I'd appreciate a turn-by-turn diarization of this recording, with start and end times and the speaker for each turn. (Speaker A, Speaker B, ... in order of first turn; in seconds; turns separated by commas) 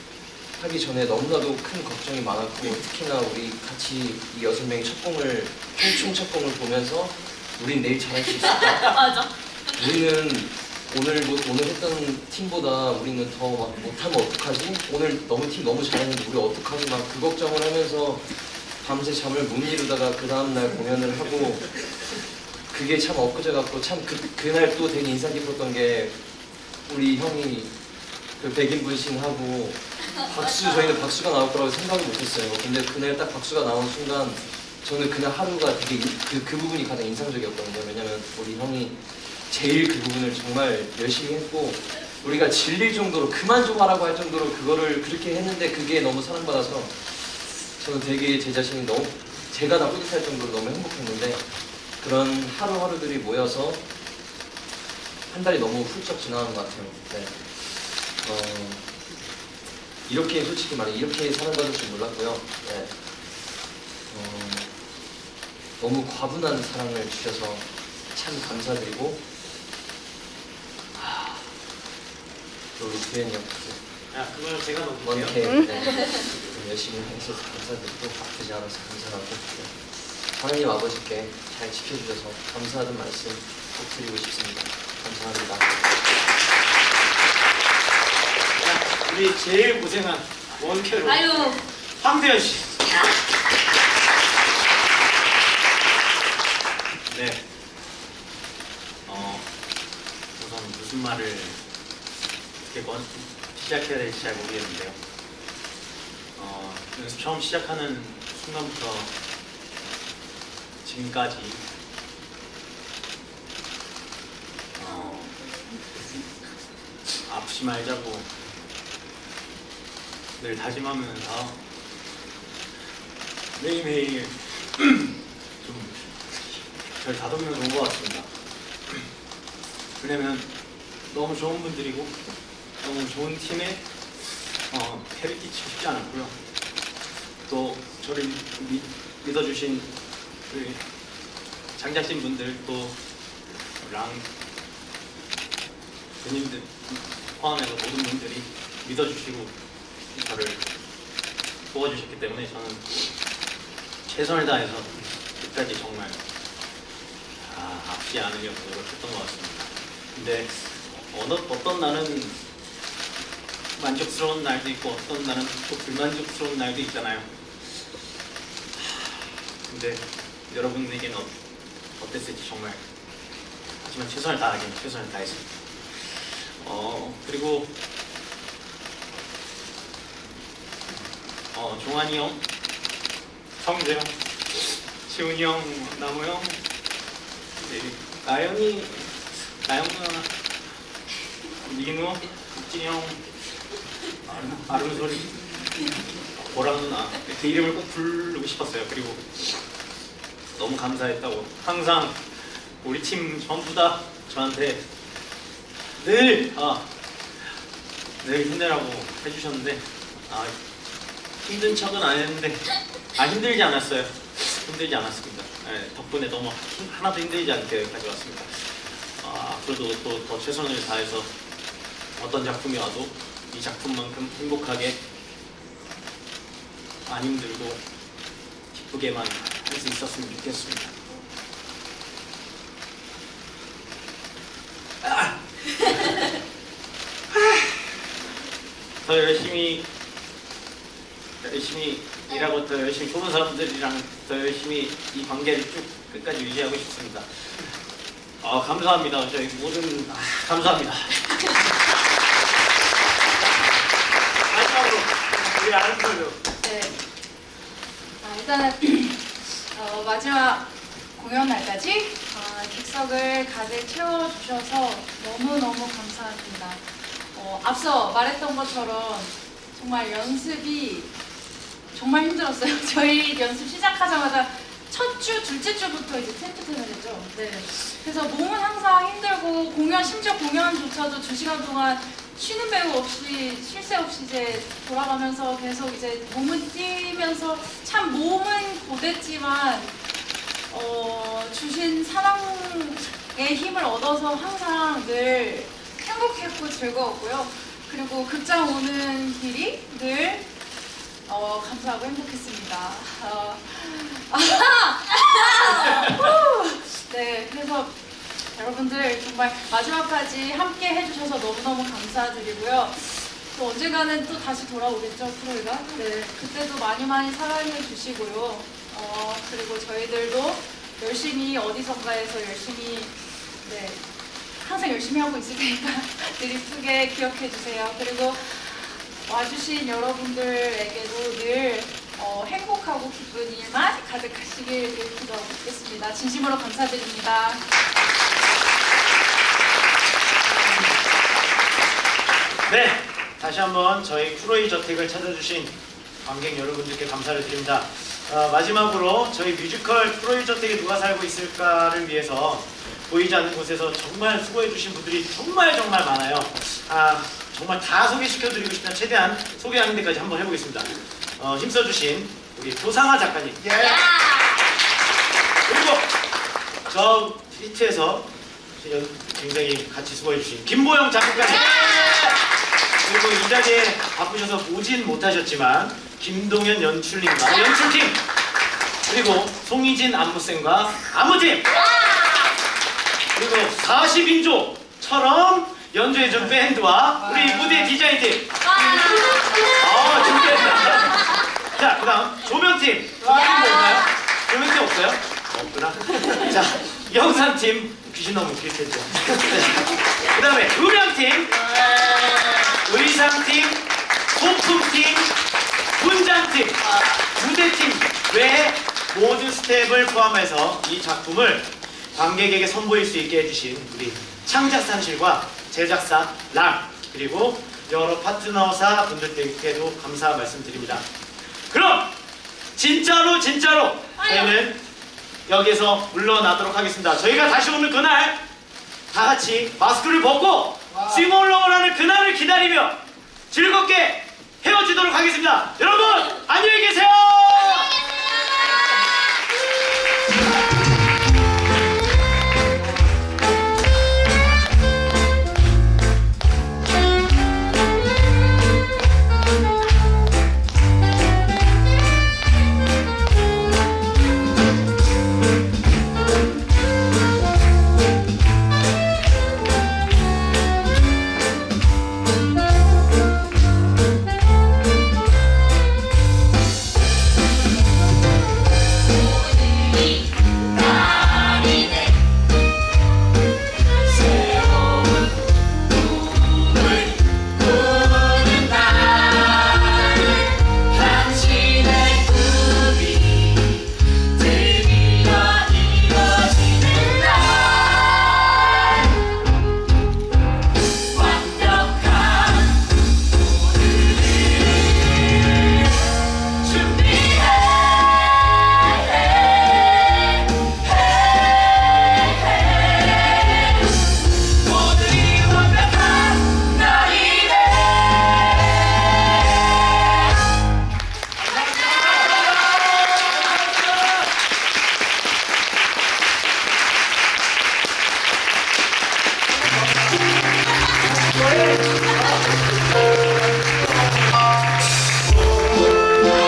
Speaker A: 0.6-9.0, Speaker B: 8.5-9.8, Speaker A: 9.7-18.3, Speaker A: 18.8-21.9, Speaker A: 22.7-26.2, Speaker A: 26.9-27.7, Speaker A: 28.4-51.4, Speaker A: 52.0-53.8, Speaker A: 55.3-58.9, Speaker A: 60.1-62.9, Speaker A: 64.1-64.7, Speaker A: 65.8-69.3, Speaker A: 70.9-71.5, Speaker A: 72.8-73.8, Speaker C: 74.1-75.4, Speaker A: 75.0-85.8, Speaker C: 88.6-92.8, Speaker B: 91.0-91.6, Speaker D: 97.1-97.4, Speaker D: 99.1-99.5, Speaker D: 100.4-101.6, Speaker D: 102.7-105.0, Speaker D: 106.4-109.1, Speaker D: 110.8-111.6, Speaker D: 114.8-115.3, Speaker D: 117.3-118.3, Speaker D: 120.4-121.6, Speaker D: 123.6-126.2, Speaker D: 126.9-128.3, Speaker D: 130.0-130.5, Speaker D: 131.1-132.1, Speaker D: 132.8-133.8, Speaker D: 134.7-136.3, Speaker D: 137.5-139.9, Speaker D: 140.5-140.9, Speaker D: 141.8-143.0, Speaker D: 143.8-144.3, Speaker D: 146.2-149.5, Speaker D: 150.1-150.7, Speaker D: 151.7-153.1, Speaker D: 154.1-156.2, Speaker D: 157.4-162.4, Speaker D: 163.8-167.8, Speaker D: 168.8-171.3, Speaker D: 172.0-172.8, Speaker D: 173.8-177.7, Speaker D: 181.5-182.4, Speaker D: 183.6-186.6, Speaker D: 187.6-190.3, Speaker D: 191.6-193.3, Speaker D: 194.3-195.6, Speaker D: 196.3-199.4, Speaker D: 200.5-202.2, Speaker D: 202.8-204.8, Speaker D: 206.0-206.9, Speaker D: 208.2-210.5, Speaker D: 211.4-221.3, Speaker D: 222.2-225.0, Speaker D: 227.1-227.8, Speaker D: 228.7-231.0, Speaker D: 235.0-236.1, Speaker D: 237.3-237.8, Speaker D: 239.0-239.9, Speaker D: 241.4-247.3, Speaker D: 248.4-251.3, Speaker C: 254.5-256.4, Speaker E: 256.6-257.0, Speaker E: 258.2-266.8, Speaker E: 267.3-271.1, Speaker E: 271.9-289.9, Speaker E: 290.7-300.5, Speaker E: 301.3-307.9, Speaker E: 308.5-324.0, Speaker E: 324.6-337.6, Speaker C: 342.7-363.7, Speaker B: 363.7-364.5, Speaker C: 365.7-366.1, Speaker C: 366.9-372.4, Speaker B: 371.5-372.3, Speaker C: 373.0-378.2, Speaker C: 379.1-381.8, Speaker B: 381.8-382.5, Speaker C: 383.3-388.6, Speaker B: 388.7-389.6, Speaker C: 389.6-405.3, Speaker B: 393.3-394.0, Speaker B: 401.8-402.6, Speaker C: 406.0-421.1, Speaker C: 421.7-422.1, Speaker C: 422.8-424.8, Speaker B: 424.2-424.5, Speaker C: 425.5-428.4, Speaker C: 429.1-433.0, Speaker C: 433.5-438.0, Speaker B: 471.2-472.0, Speaker B: 478.1-480.0, Speaker B: 481.0-483.6, Speaker B: 484.4-488.0, Speaker B: 491.3-492.6, Speaker B: 506.5-507.7